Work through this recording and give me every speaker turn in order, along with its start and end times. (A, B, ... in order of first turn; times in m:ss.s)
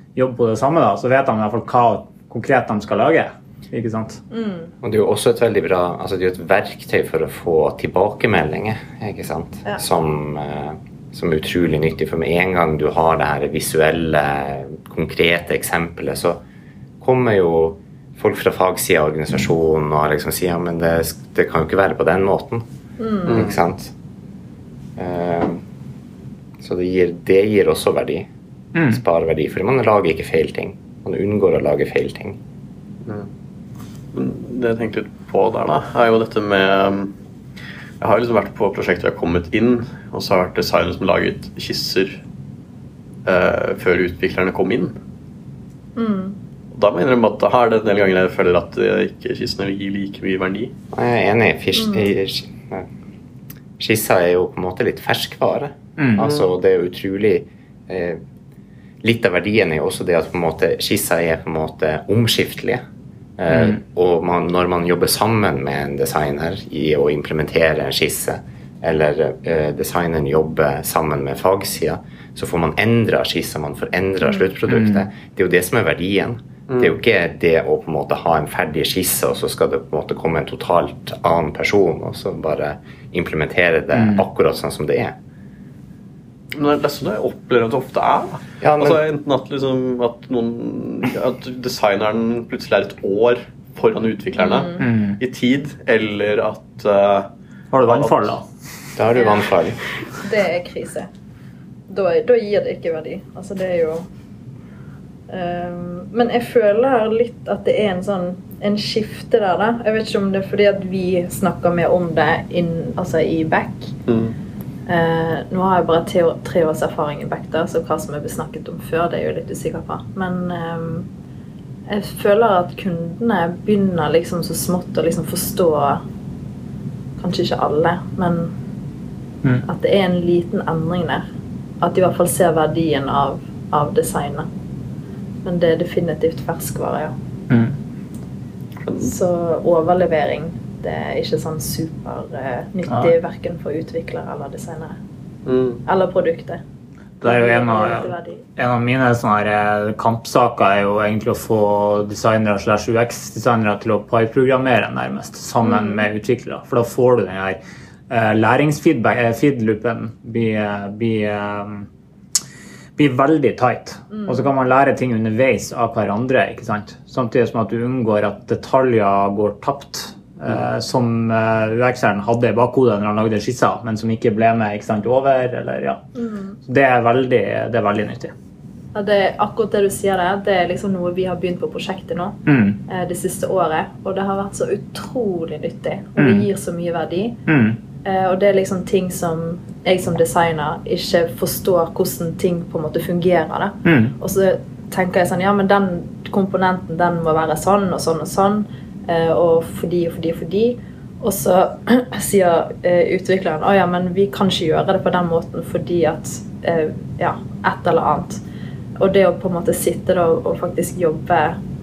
0:00.2-0:04.2 A
0:04.3-0:04.7 B
0:04.8-0:16.4 C
0:17.0-0:22.6 C
0:23.0-0:23.3 B
0:23.2-0:23.6 D
0:23.3-0:23.9 C
0:25.0-0:25.6 C
0:26.6-0:28.3 C
0:28.7-0:29.0 A
0:28.8-0:32.4 C
0:34.1-0:37.1 D
0:38.0-0:42.2 D
0:43.2-0:44.9 D
0:46.0-0:46.3 B
0:46.7-0:50.7 D
0:50.9-0:52.8 C
0:51.7-0:52.1 B
0:53.8-0:58.2 C
0:56.0-0:56.3 A
0:59.0-1:02.8 C
1:03.4-1:25.1 C
1:03.5-1:03.8 A
1:14.7-1:15.1 A
1:16.7-1:17.0 D
1:23.9-1:24.2 A
1:26.5-1:37.3 D
1:28.6-1:29.0 C
1:34.4-1:34.7 B
1:34.8-1:35.2 A
1:37.7-1:38.4 A
1:37.8-1:38.4 D
1:39.0-1:39.8 C
1:39.2-1:39.5 B
1:40.2-1:41.1 B
1:41.9-1:44.0 B
1:45.3-1:53.9 B
1:54.1-1:54.3 D
1:54.9-2:01.1 B
2:01.9-2:06.0 B
2:07.2-2:08.5 B
2:09.6-2:11.2 B
2:11.8-2:14.5 B
2:15.4-2:17.1 B
2:17.5-2:17.8 A
2:18.8-2:19.1 D
2:19.0-2:25.0 B
2:25.4-2:25.8 D
2:25.8-2:26.6 B
2:27.2-2:41.9 A
2:27.2-2:28.4 B
2:35.6-2:36.0 B
2:43.0-2:56.0 A
2:44.1-2:44.4 B
2:56.1-2:56.6 B
2:56.6-2:58.3 A
2:58.9-3:02.4 B
3:02.4-3:02.8 A
3:02.9-3:07.4 B
3:06.2-3:06.5 A
3:07.5-3:07.8 A
3:08.0-3:28.4 B
3:13.8-3:14.1 A
3:29.0-3:31.6 B